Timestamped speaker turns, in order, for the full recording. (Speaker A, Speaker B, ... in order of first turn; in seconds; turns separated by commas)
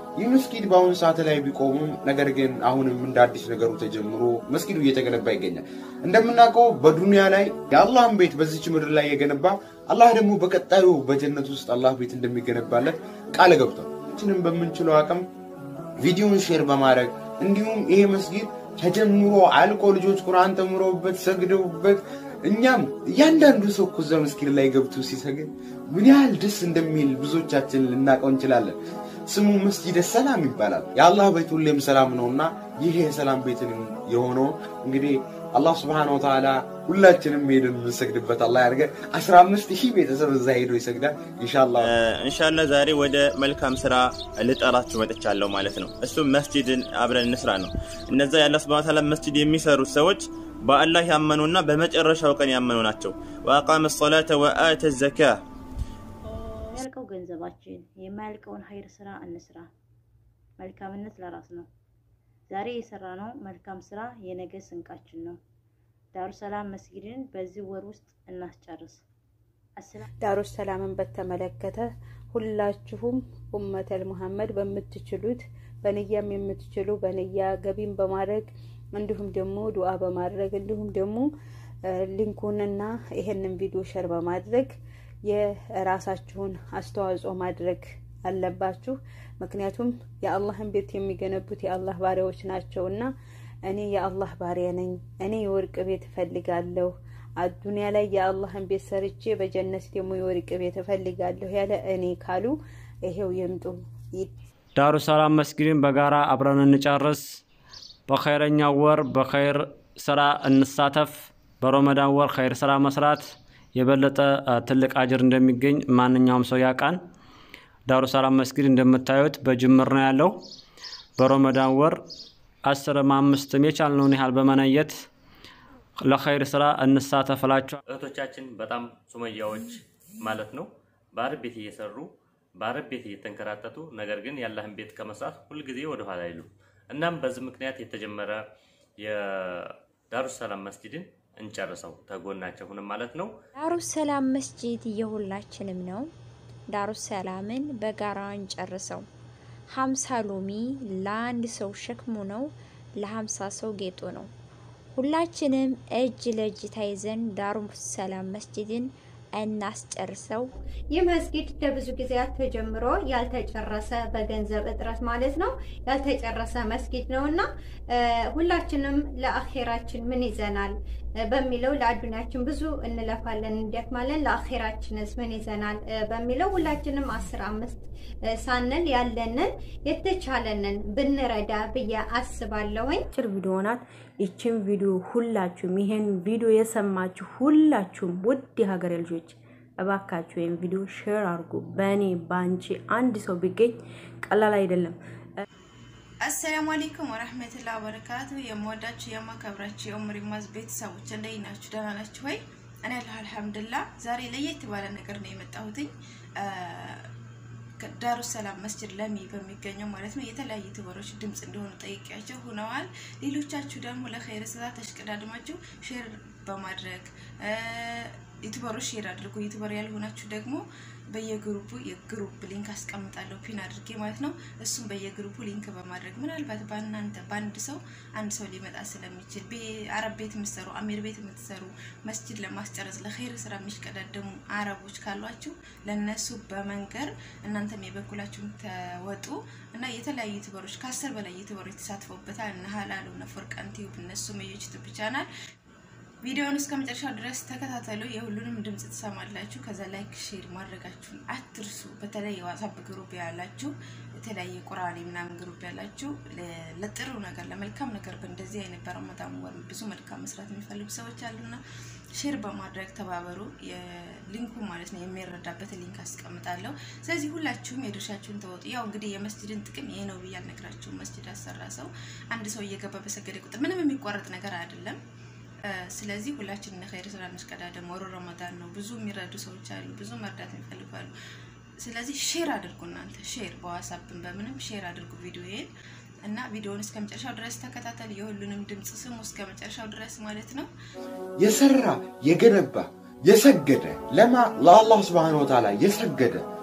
Speaker A: 0.2-15.2, Speaker A: 16.0-28.8, Speaker A: 29.3-41.9, Speaker B: 41.8-55.4, Speaker C: 56.8-59.7, Speaker C: 60.6-61.6, Speaker C: 62.5-65.3, Speaker C: 66.2-69.0, Speaker D: 70.2-81.3, Speaker D: 82.1-84.7, Speaker D: 85.3-93.1, Speaker D: 93.7-102.5, Speaker D: 103.1-104.3, Speaker E: 104.8-107.4, Speaker E: 108.1-117.0, Speaker E: 117.9-120.3, Speaker E: 121.2-122.0, Speaker E: 122.7-125.0, Speaker E: 126.0-127.8, Speaker F: 127.9-138.4, Speaker F: 139.0-143.3, Speaker G: 143.6-146.1, Speaker G: 146.7-149.1, Speaker G: 149.7-154.3, Speaker G: 155.0-160.5, Speaker H: 160.9-170.7, Speaker H: 171.3-177.8, Speaker H: 178.4-183.0, Speaker I: 183.1-193.8, Speaker I: 194.3-194.9, Speaker J: 196.2-205.9, Speaker J: 206.4-207.1, Speaker J: 207.8-245.3, Speaker J: 246.2-261.6, Speaker J: 262.2-275.0, Speaker J: 275.7-281.1, Speaker J: 281.8-285.7, Speaker J: 286.2-290.7, Speaker A: 291.4-296.4